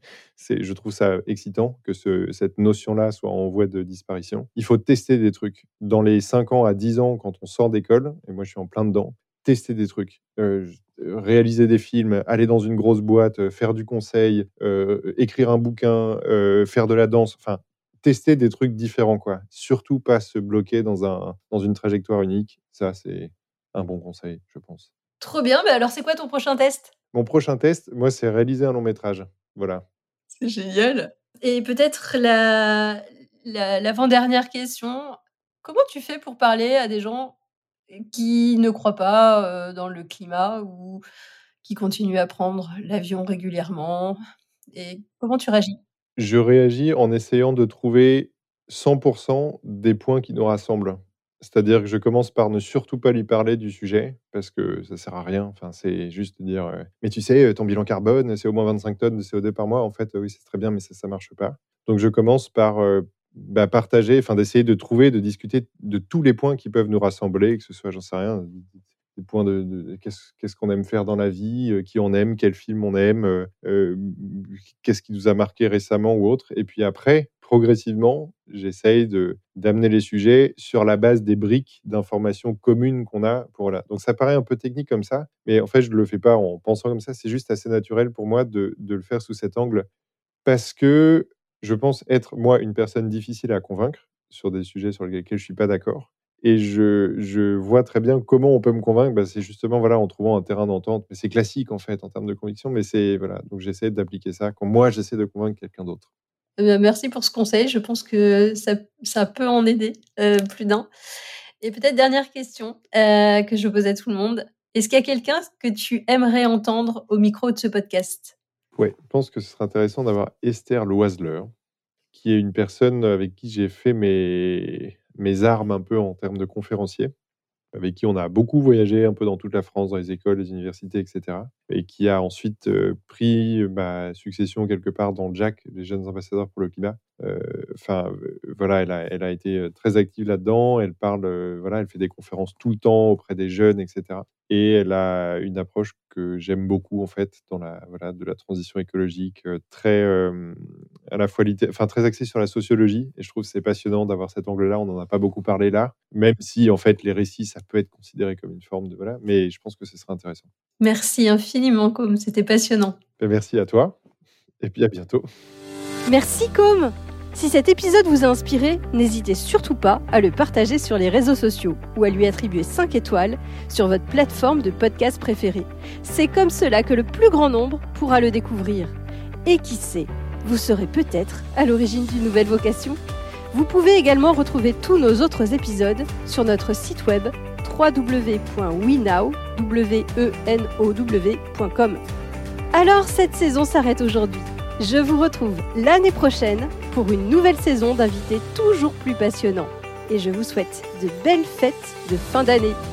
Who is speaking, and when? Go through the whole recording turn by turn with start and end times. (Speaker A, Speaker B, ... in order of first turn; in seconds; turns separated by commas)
Speaker A: 0.3-24.9, Speaker B: 25.2-26.9, Speaker A: 27.1-29.8, Speaker B: 30.3-37.4, Speaker B: 37.9-41.0, Speaker B: 41.6-44.2, Speaker B: 44.7-45.8, Speaker A: 46.2-89.9, Speaker A: 90.4-106.0, Speaker B: 106.6-110.9, Speaker B: 111.6-118.3, Speaker A: 118.8-121.5, Speaker A: 122.1-127.1, Speaker A: 127.7-160.5, Speaker B: 160.8-163.0, Speaker A: 163.2-163.9, Speaker A: 164.6-165.2, Speaker B: 166.1-183.0, Speaker B: 183.5-192.0, Speaker B: 192.7-202.8